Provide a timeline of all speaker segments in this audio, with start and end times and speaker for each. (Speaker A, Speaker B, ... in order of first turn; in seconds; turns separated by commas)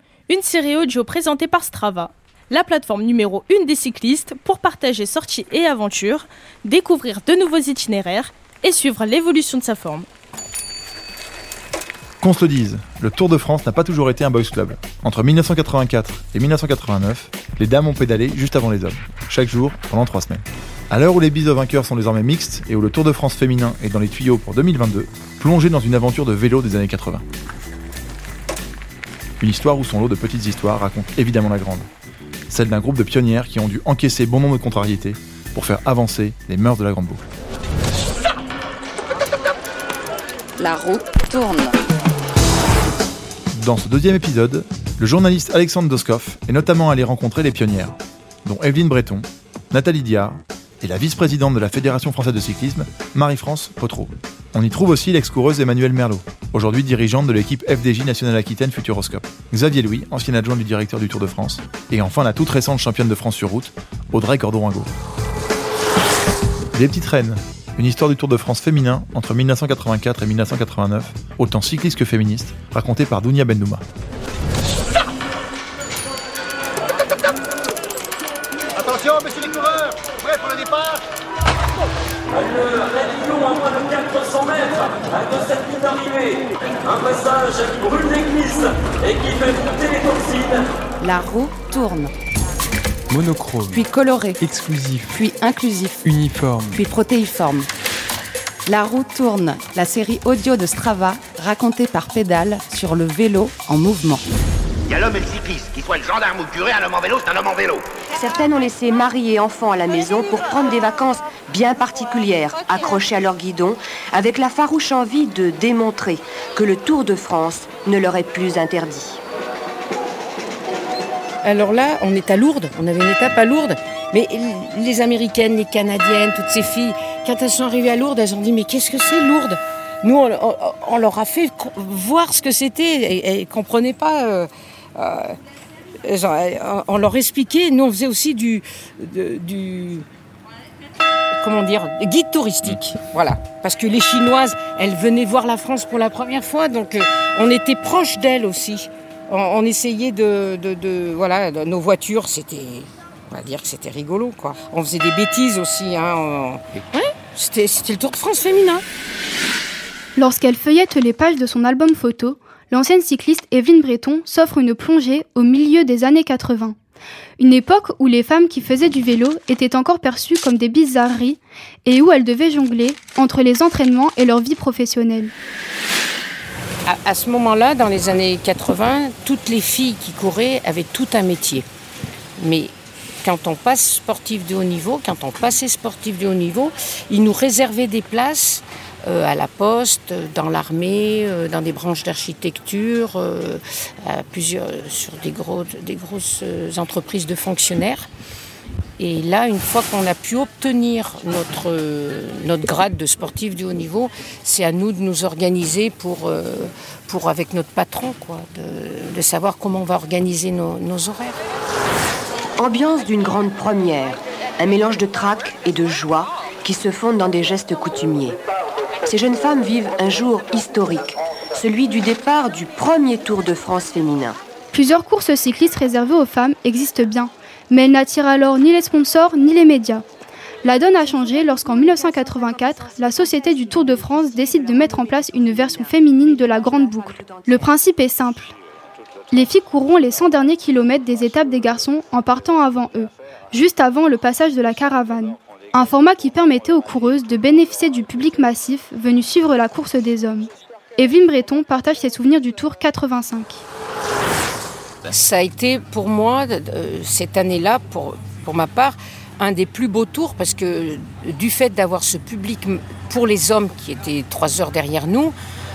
Speaker A: 0.3-10.1, Speaker B: 12.2-27.2, Speaker B: 29.4-31.9, Speaker B: 32.5-37.2, Speaker C: 40.6-41.8, Speaker B: 43.5-64.9, Speaker B: 66.7-73.8, Speaker D: 82.5-90.6, Speaker C: 91.0-92.1, Speaker E: 93.1-93.9, Speaker C: 93.7-94.4, Speaker E: 94.4-95.2, Speaker C: 95.1-96.0, Speaker E: 96.0-96.8, Speaker C: 96.7-97.7, Speaker C: 98.7-104.2, Speaker F: 104.9-107.8, Speaker G: 108.2-119.2, Speaker H: 121.4-135.4, Speaker H: 136.0-140.1, Speaker H: 141.4-158.8, Speaker I: 160.2-166.8, Speaker I: 167.4-175.3, Speaker H: 176.8-181.6, Speaker H: 182.4-182.7, Speaker H: 183.2-198.1, Speaker H: 199.0-211.4, Speaker G: 212.6-218.4, Speaker G: 219.1-224.4, Speaker I: 224.7-230.0, Speaker I: 230.6-238.5, Speaker I: 239.3-253.6, Speaker H: 255.1-265.3